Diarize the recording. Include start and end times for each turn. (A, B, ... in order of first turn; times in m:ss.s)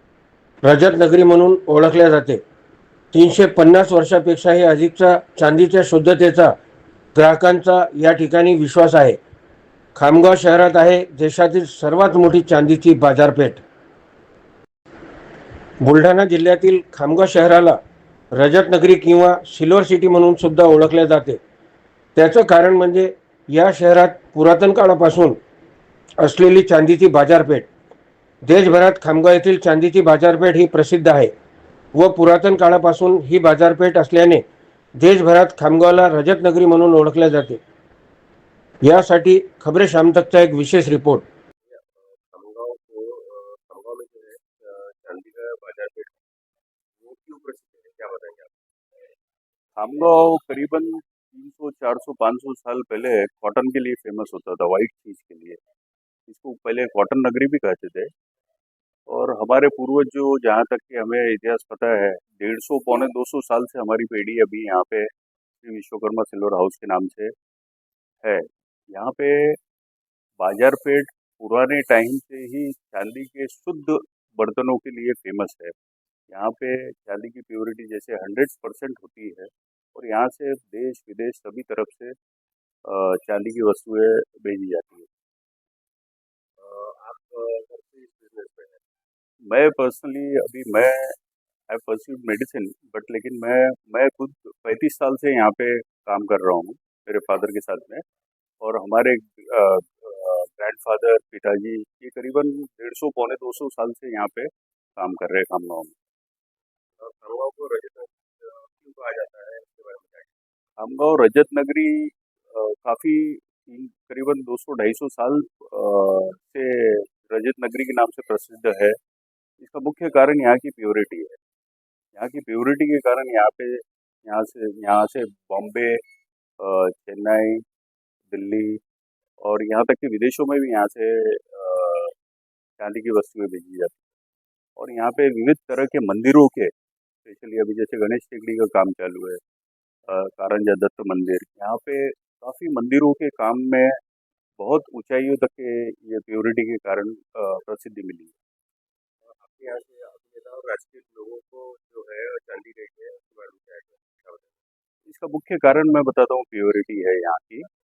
0:00.6-0:02.4 A
0:03.1-0:06.5 A
0:07.1-0:09.2 A
0:09.9-0:13.6 A
0:15.8-0:17.8 A
0:18.3-0:21.4 A
0:22.2-0:25.4 A
0:26.2-0:27.7 A
0:28.4-0:31.3 A
0:31.9-0:34.4 A
0:35.0-0:37.6 A
0:38.8-0:41.2 A
0:41.7-0:46.1 B
0:47.0-0:48.5 B
0:49.8-0:55.6 C
0:56.3-0:58.1 C
0:59.1-1:05.1 C
1:05.6-1:07.3 C
1:08.2-1:09.6 C
1:10.4-1:15.7 C
1:16.3-1:22.1 C
1:22.9-1:25.1 C
1:26.6-1:28.8 B
1:29.5-1:31.1 C
1:31.7-1:38.0 C
1:38.6-1:45.9 C
1:47.0-1:50.3 B
1:50.8-1:59.0 C
1:59.6-2:01.4 C
2:02.1-2:06.0 C
2:06.6-2:07.6 C
2:08.3-2:08.8 C
2:09.4-2:12.1 C
2:12.8-2:14.0 C
2:14.8-2:16.7 C
2:17.2-2:19.4 C
2:20.1-2:23.9 C
2:24.6-2:28.4 C
2:29.2-2:34.5 B
2:35.1-2:37.6 C